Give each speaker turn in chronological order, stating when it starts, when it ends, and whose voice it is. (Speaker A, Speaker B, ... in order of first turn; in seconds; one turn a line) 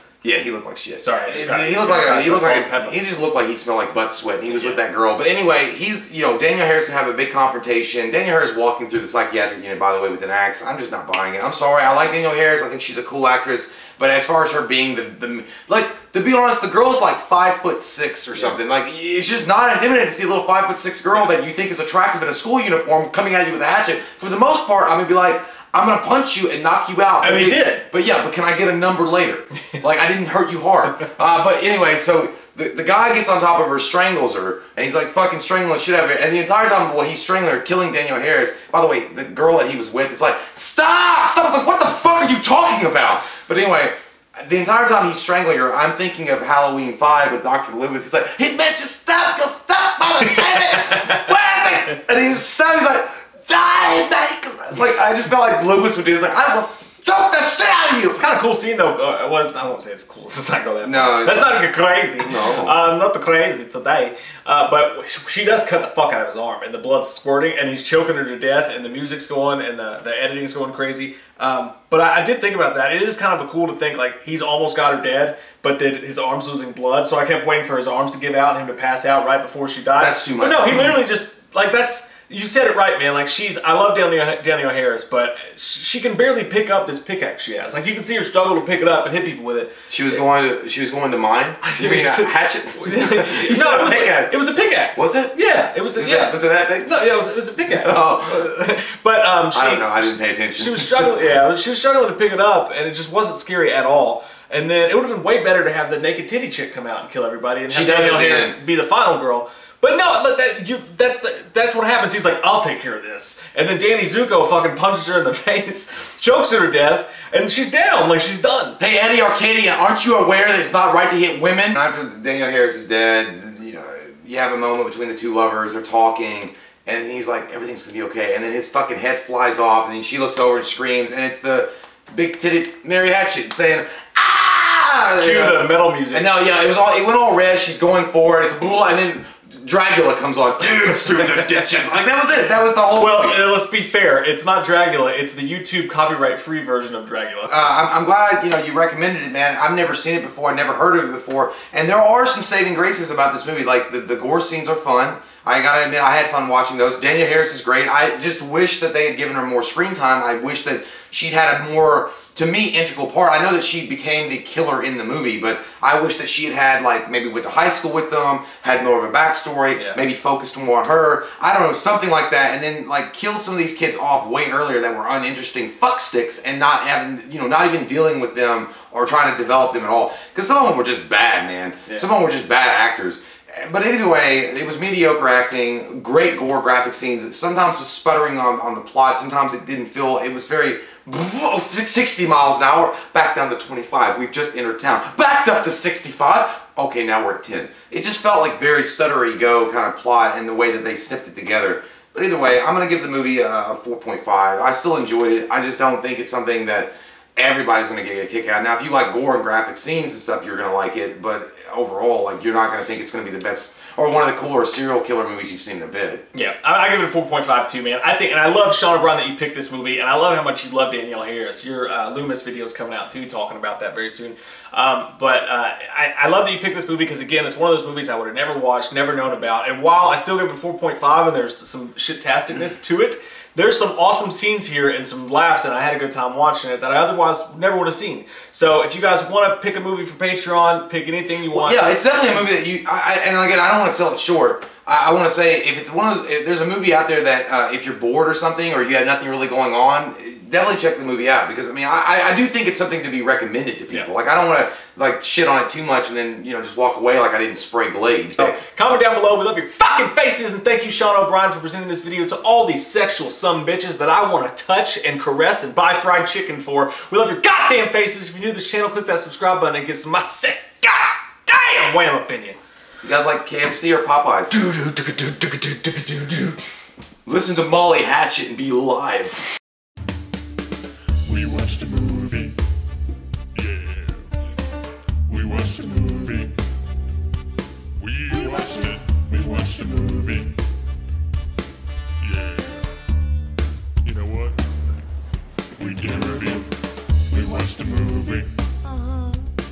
Speaker A: 0.2-58.2
Speaker B: 1.0-3.0
Speaker B: 4.5-4.8
Speaker B: 27.2-27.9
Speaker B: 50.3-51.0
Speaker B: 58.1-89.7
Speaker A: 60.8-62.8
Speaker A: 80.0-81.0
Speaker A: 89.9-97.0
Speaker B: 91.7-118.8
Speaker A: 97.7-98.5
Speaker A: 99.5-101.4
Speaker A: 107.7-108.6
Speaker A: 118.8-143.4
Speaker B: 135.2-136.3
Speaker B: 142.9-147.7
Speaker A: 147.5-216.3
Speaker B: 216.3-241.8
Speaker A: 241.5-258.6
Speaker B: 258.4-272.6
Speaker A: 273.0-276.6
Speaker A: 277.3-279.5
Speaker C: 281.3-282.3
Speaker C: 285.3-286.0
Speaker C: 288.0-290.4
Speaker C: 294.1-294.3
Speaker C: 295.8-296.6
Speaker C: 297.3-298.4